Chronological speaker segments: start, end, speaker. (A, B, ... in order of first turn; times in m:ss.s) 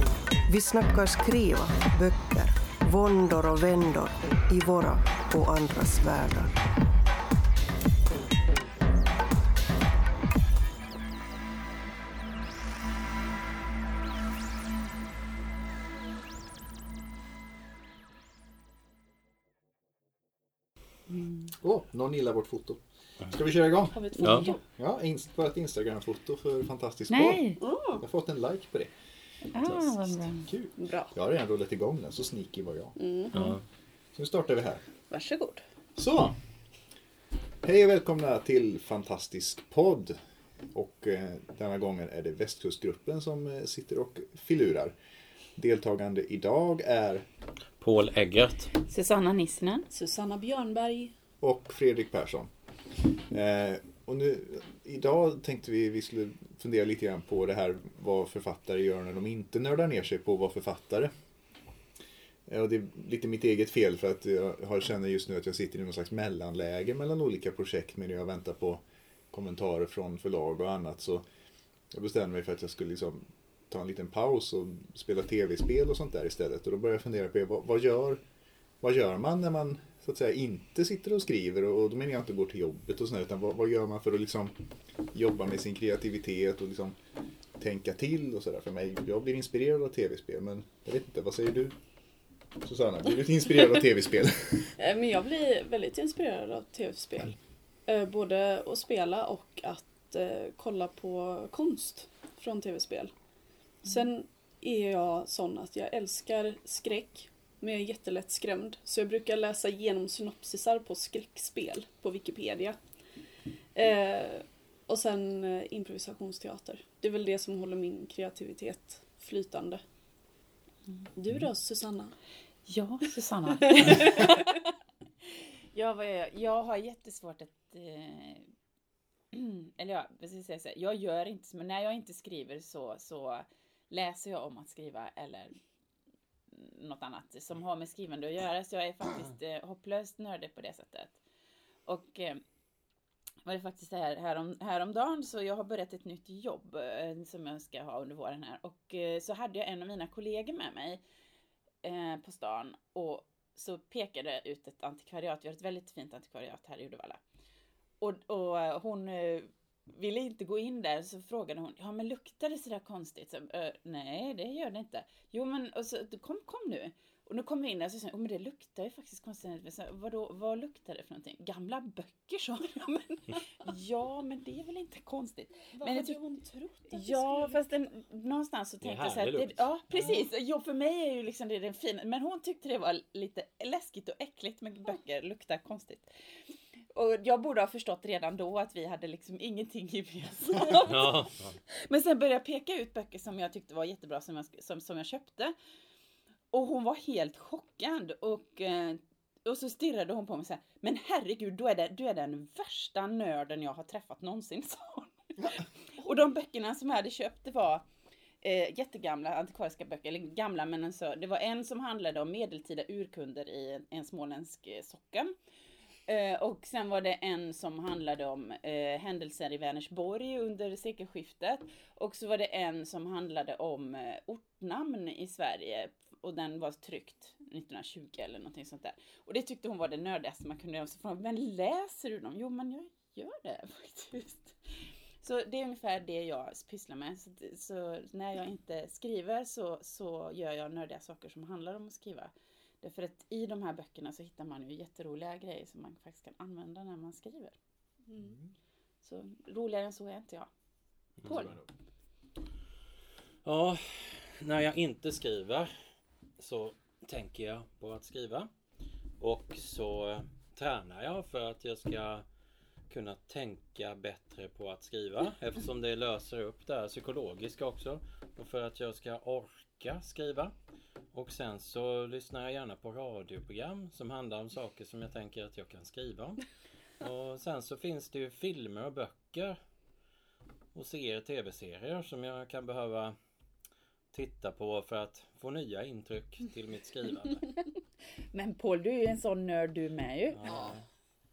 0:00.5-0:06.5 A
0:21.1-0:21.5 B
0:21.5-0:24.0 C
0:23.9-0:24.6 D
0:24.2-0:24.6 B
0:24.2-0:24.5 E
0:24.7-0:28.9 C
0:27.1-0:27.6 B
0:27.6-0:28.0 D
0:29.5-0:30.5 B
0:29.5-0:33.0 C
0:30.8-0:31.1 D
0:33.0-0:33.5 D
0:33.3-0:33.6 E
0:34.1-0:34.8 C
0:35.1-0:35.6 B
0:36.0-0:36.4 C
0:37.6-0:40.2 C
0:40.7-0:44.9 C
0:45.6-0:47.2 C
0:47.8-0:48.7 E
0:48.8-0:49.9 B
0:49.9-0:51.1 D
0:51.4-0:52.5 C
0:53.0-1:01.1 C
1:02.5-1:11.2 C
1:11.9-1:18.2 C
1:18.8-1:24.6 C
1:25.1-1:27.0 C
1:27.6-1:31.8 C
1:32.6-1:34.8 C
1:34.8-1:43.1 D
1:43.8-1:52.8 D
1:53.7-1:59.8 D
2:01.1-2:02.2 D
2:02.7-2:04.6 B
2:03.7-2:04.4 D
2:05.7-2:08.5 B
2:09.3-2:15.6 B
2:16.5-2:21.2 B
2:21.8-2:22.4 B
2:23.4-2:31.0 B
2:31.8-2:37.2 B
2:38.0-2:56.2 B
2:55.7-2:57.6 D
2:56.9-3:06.1 B
2:58.8-2:59.7 E
3:06.9-3:11.2 B
3:10.8-3:11.6 E
3:11.7-3:15.5 B
3:16.5-3:27.8 B
3:28.4-3:35.3 B
3:36.1-4:07.6 B
4:08.0-4:08.4 D
4:08.2-4:08.5 C
4:09.0-4:10.5 B
4:11.2-4:11.5 E
4:11.2-4:11.5 B
4:11.2-4:11.7 C
4:13.4-4:15.7 E
4:16.4-4:18.5 E
4:19.2-4:22.2 E
4:22.9-4:30.5 E
4:31.1-4:36.4 E
4:37.0-4:39.6 E
4:40.7-4:43.1 E
4:44.1-4:47.5 E
4:48.3-4:50.7 B
4:50.3-4:50.8 E
4:50.5-4:50.8 D